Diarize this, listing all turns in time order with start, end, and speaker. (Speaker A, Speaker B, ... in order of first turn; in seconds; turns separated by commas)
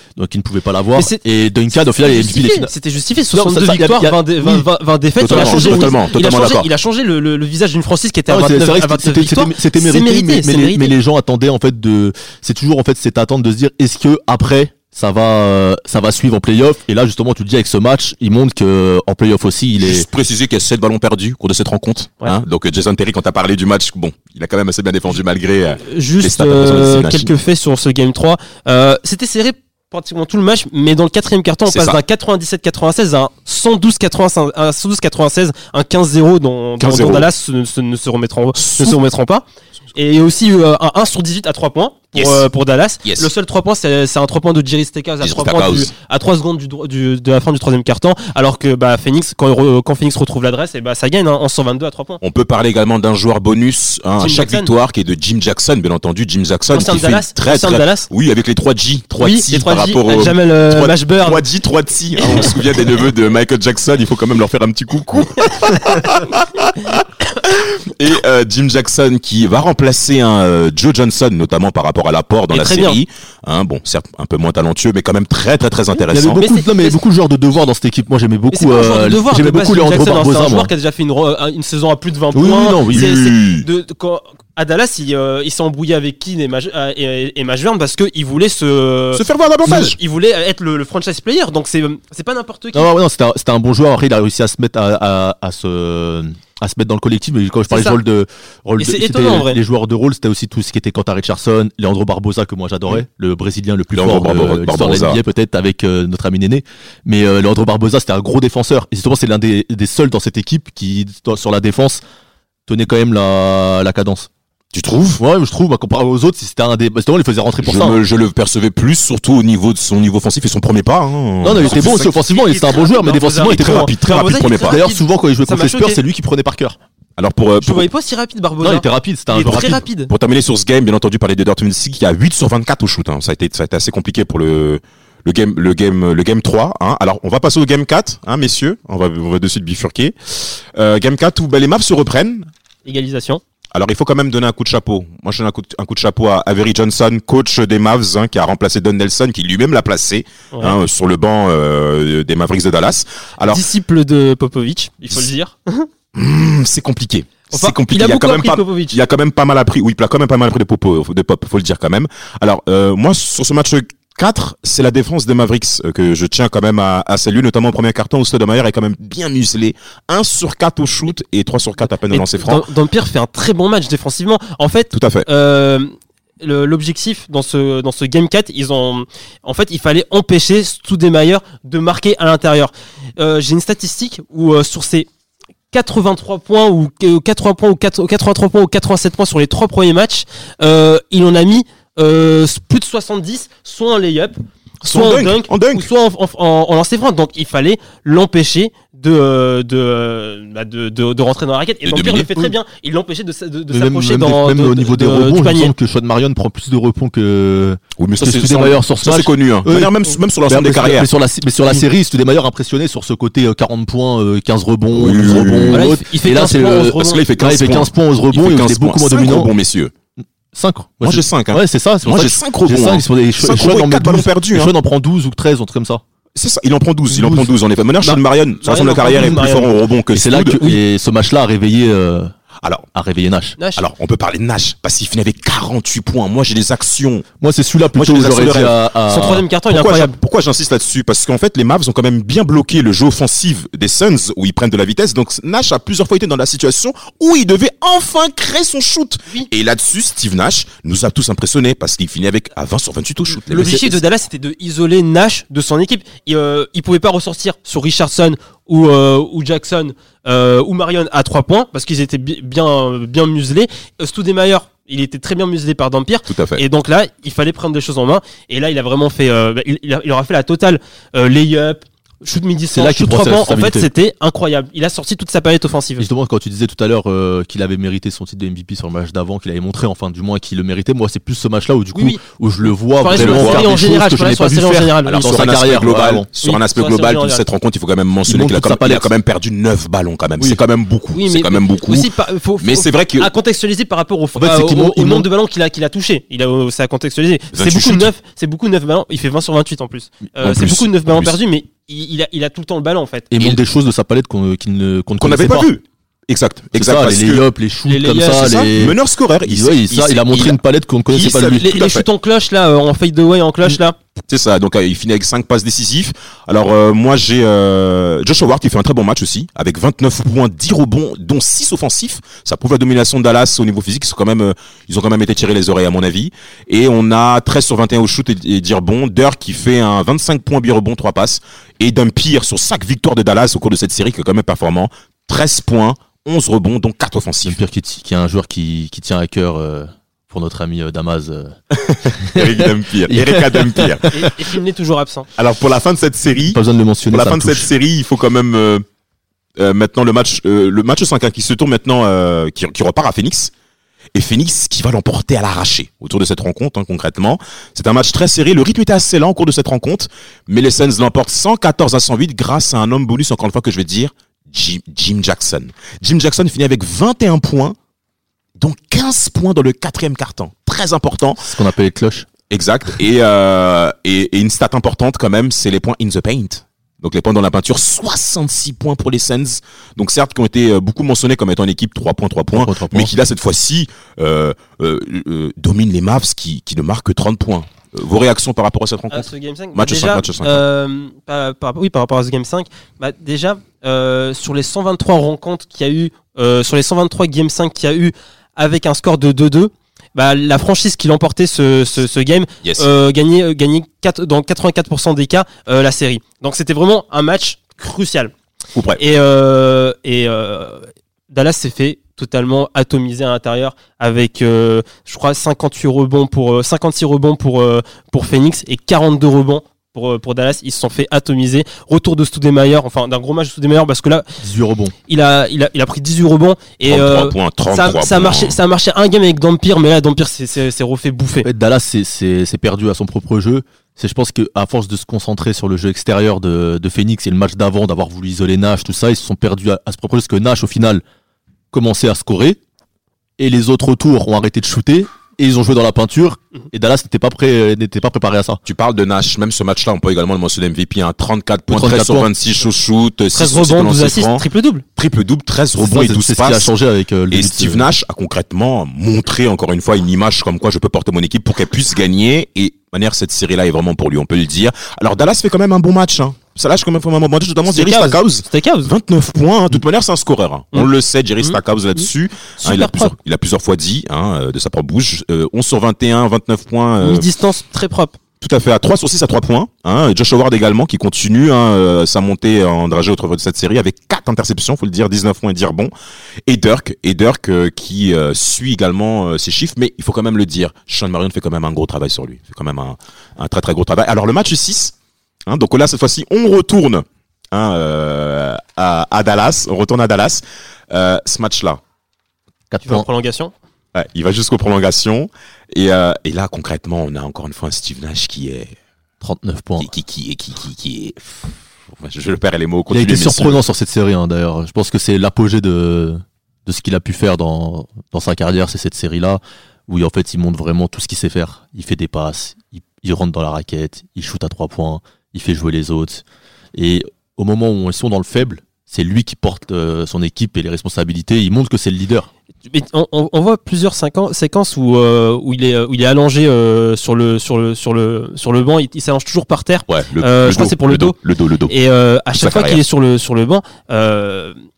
Speaker A: 0.2-2.7, Speaker B: 0.9-1.2, Speaker B: 2.0-11.0, Speaker A: 3.3-4.7, Speaker A: 5.2-6.0, Speaker C: 5.2-6.7, Speaker A: 8.3-20.1, Speaker C: 19.8-27.3, Speaker B: 25.8-52.2, Speaker C: 31.7-32.0, Speaker C: 36.8-37.3, Speaker C: 38.6-39.0, Speaker C: 42.2-42.5, Speaker C: 43.0-43.3, Speaker C: 45.2-45.9, Speaker C: 52.2-76.4, Speaker B: 54.2-54.7, Speaker B: 56.7-58.1, Speaker B: 59.2-61.4, Speaker B: 62.2-62.6, Speaker B: 72.5-73.0, Speaker A: 76.1-80.7, Speaker B: 76.4-77.0, Speaker B: 78.5-92.9, Speaker A: 82.3-83.1, Speaker C: 82.9-83.7, Speaker C: 89.1-90.0, Speaker A: 92.7-112.0, Speaker B: 97.7-98.0, Speaker B: 98.8-99.6, Speaker C: 103.9-105.2, Speaker A: 112.7-114.3, Speaker C: 114.7-115.2, Speaker A: 115.2-118.0, Speaker C: 117.6-122.2, Speaker A: 121.4-123.9, Speaker B: 121.6-126.0, Speaker C: 123.4-124.8, Speaker A: 124.6-126.8, Speaker C: 127.2-127.9, Speaker B: 127.6-130.1, Speaker A: 128.6-129.8, Speaker C: 129.4-142.5, Speaker B: 142.8-143.4, Speaker C: 143.7-153.7, Speaker B: 153.4-155.9, Speaker C: 156.2-172.7, Speaker B: 157.5-159.0, Speaker B: 172.1-185.1, Speaker C: 174.9-175.3, Speaker B: 185.7-205.7, Speaker C: 194.8-195.9, Speaker C: 201.8-202.3, Speaker A: 203.7-209.9, Speaker C: 208.0-211.1, Speaker A: 210.5-219.5, Speaker C: 214.9-215.9, Speaker B: 215.7-217.2, Speaker C: 216.9-219.9, Speaker A: 220.5-226.0, Speaker C: 221.0-224.7, Speaker C: 226.4-230.8, Speaker A: 227.1-227.5, Speaker B: 228.0-229.8, Speaker A: 230.1-232.3, Speaker A: 232.9-233.6, Speaker B: 233.6-233.8, Speaker C: 233.8-237.3, Speaker A: 237.4-239.5, Speaker C: 237.9-238.8, Speaker B: 239.1-240.2, Speaker C: 239.7-254.0, Speaker B: 253.4-276.1, Speaker C: 266.3-266.6, Speaker A: 272.7-273.9, Speaker A: 276.0-286.3, Speaker B: 281.9-282.2, Speaker B: 283.0-285.5, Speaker C: 283.1-283.7, Speaker C: 285.0-293.3, Speaker B: 286.4-287.4, Speaker A: 288.3-289.1, Speaker B: 291.1-303.5, Speaker A: 294.4-295.3, Speaker C: 297.5-298.1, Speaker C: 300.4-301.4, Speaker A: 303.3-305.7, Speaker C: 305.2-307.5, Speaker A: 306.8-311.7, Speaker B: 307.9-308.5, Speaker C: 308.2-310.6, Speaker C: 311.1-312.1, Speaker B: 311.2-314.0, Speaker C: 314.3-337.6, Speaker A: 337.4-344.3, Speaker C: 341.8-344.1, Speaker B: 344.1-345.3, Speaker C: 345.4-348.9, Speaker A: 346.4-347.7, Speaker C: 349.6-353.5, Speaker C: 354.1-367.8, Speaker C: 368.6-371.5, Speaker A: 371.4-372.3, Speaker C: 372.5-390.6, Speaker A: 382.5-383.1, Speaker B: 389.1-408.3, Speaker C: 408.8-409.0, Speaker B: 409.0-424.3, Speaker A: 424.4-424.9, Speaker B: 425.1-431.5, Speaker C: 426.9-428.6, Speaker A: 431.4-441.0, Speaker A: 441.7-442.6, Speaker A: 443.4-448.6, Speaker C: 448.7-454.4, Speaker A: 451.7-452.3, Speaker B: 453.3-454.8, Speaker C: 455.0-456.7, Speaker A: 455.8-457.9, Speaker C: 457.3-477.3, Speaker B: 467.7-468.9, Speaker B: 472.6-473.1, Speaker B: 477.0-478.2, Speaker C: 478.4-485.9, Speaker C: 486.5-494.9, Speaker C: 495.5-501.8, Speaker A: 502.7-503.1, Speaker B: 502.8-503.5, Speaker C: 503.9-508.8, Speaker A: 509.2-509.9, Speaker C: 509.8-513.6, Speaker A: 512.9-532.3, Speaker B: 532.7-541.2, Speaker C: 539.9-541.7, Speaker B: 541.7-544.5, Speaker C: 542.3-542.8